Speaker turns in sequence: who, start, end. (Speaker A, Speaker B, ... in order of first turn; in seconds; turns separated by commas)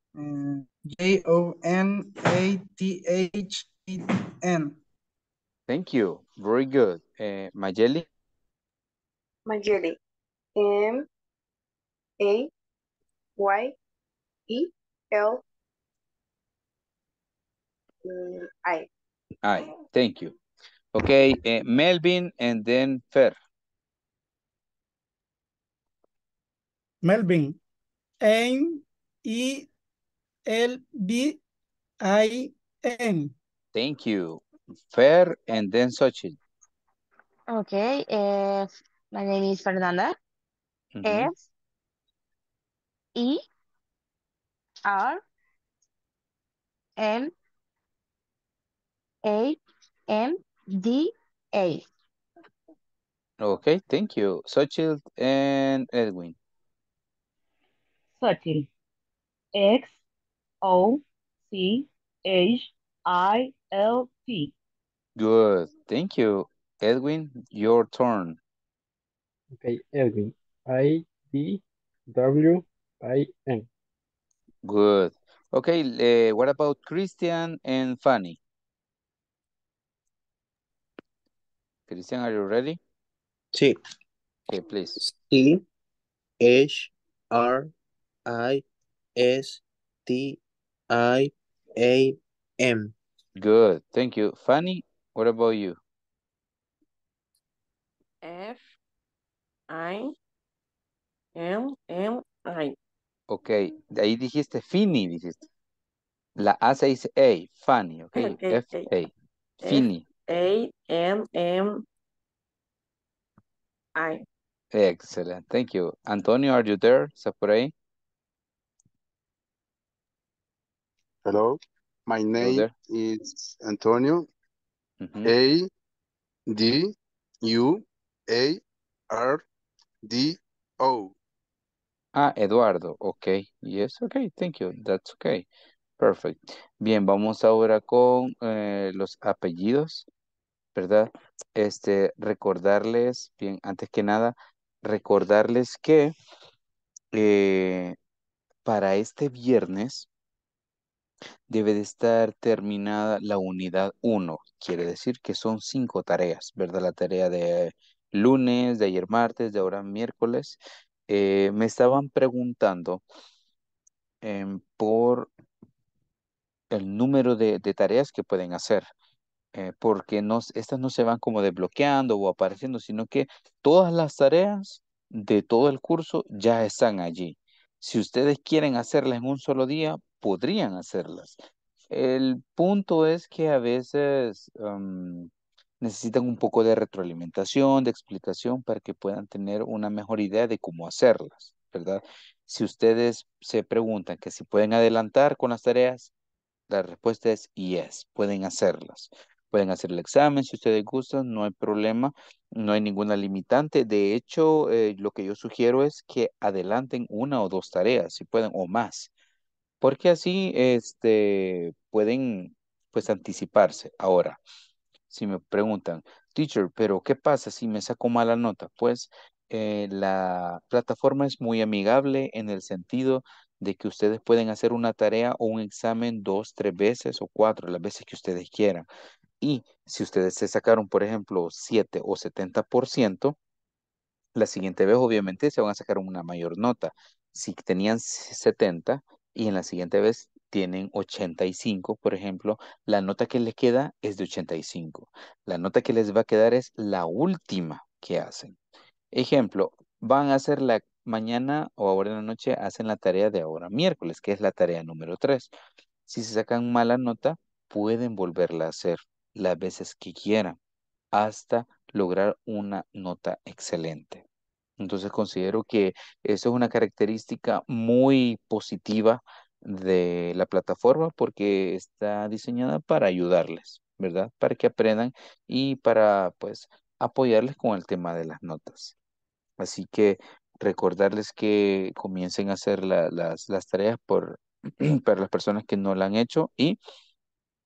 Speaker A: 0.1-4.8, Speaker B: 5.7-8.1, Speaker C: 9.4-10.0, Speaker C: 10.6-11.1, Speaker C: 12.2-12.5, Speaker C: 13.4-13.7, Speaker C: 14.5-15.4, Speaker C: 18.0-18.9, Speaker B: 19.4-20.4, Speaker B: 20.9-23.3, Speaker D: 27.0-27.6, Speaker D: 28.2-29.7, Speaker D: 30.5-31.4, Speaker D: 32.0-33.3, Speaker B: 33.7-36.4, Speaker E: 37.5-40.1, Speaker B: 40.9-41.3, Speaker E: 41.0-41.4, Speaker E: 43.1-43.4, Speaker E: 44.9-45.2, Speaker E: 47.0-47.3, Speaker E: 49.2-51.9, Speaker B: 53.4-56.4, Speaker F: 58.2-58.7, Speaker F: 59.5-59.9, Speaker F: 60.6-64.5, Speaker B: 65.2-68.4, Speaker G: 69.5-73.7, Speaker B: 74.6-78.4, Speaker B: 81.9-82.8, Speaker H: 83.5-83.8, Speaker B: 84.5-85.0, Speaker H: 85.0-85.6, Speaker H: 86.4-87.7, Speaker H: 88.2-88.6, Speaker H: 89.2-92.9, Speaker B: 93.4-95.8, Speaker I: 98.2-98.6, Speaker I: 99.7-100.1, Speaker I: 101.3-102.7, Speaker B: 103.3-105.5, Speaker B: 106.4-109.1, Speaker I: 108.1-108.9, Speaker I: 109.6-111.8, Speaker B: 109.6-110.0, Speaker I: 114.0-114.2, Speaker B: 114.7-117.7, Speaker J: 121.2-124.3, Speaker B: 122.4-122.7, Speaker B: 125.0-125.3, Speaker J: 125.2-125.7, Speaker J: 126.5-126.9, Speaker J: 127.4-128.6, Speaker J: 129.1-129.4, Speaker J: 130.1-131.1, Speaker B: 132.1-135.4, Speaker B: 136.0-140.1, Speaker B: 140.7-146.1, Speaker B: 147.1-147.9, Speaker B: 148.6-150.1, Speaker B: 151.5-163.0, Speaker B: 164.2-165.3, Speaker B: 166.7-168.9, Speaker B: 169.5-181.4, Speaker B: 181.9-185.3, Speaker B: 185.8-196.1, Speaker B: 196.7-209.1, Speaker B: 209.8-214.4, Speaker B: 215.1-228.9, Speaker B: 229.4-233.3, Speaker B: 234.3-248.6, Speaker B: 249.1-255.5, Speaker B: 256.1-260.6, Speaker B: 261.1-264.2, Speaker B: 264.8-278.9, Speaker B: 279.6-286.8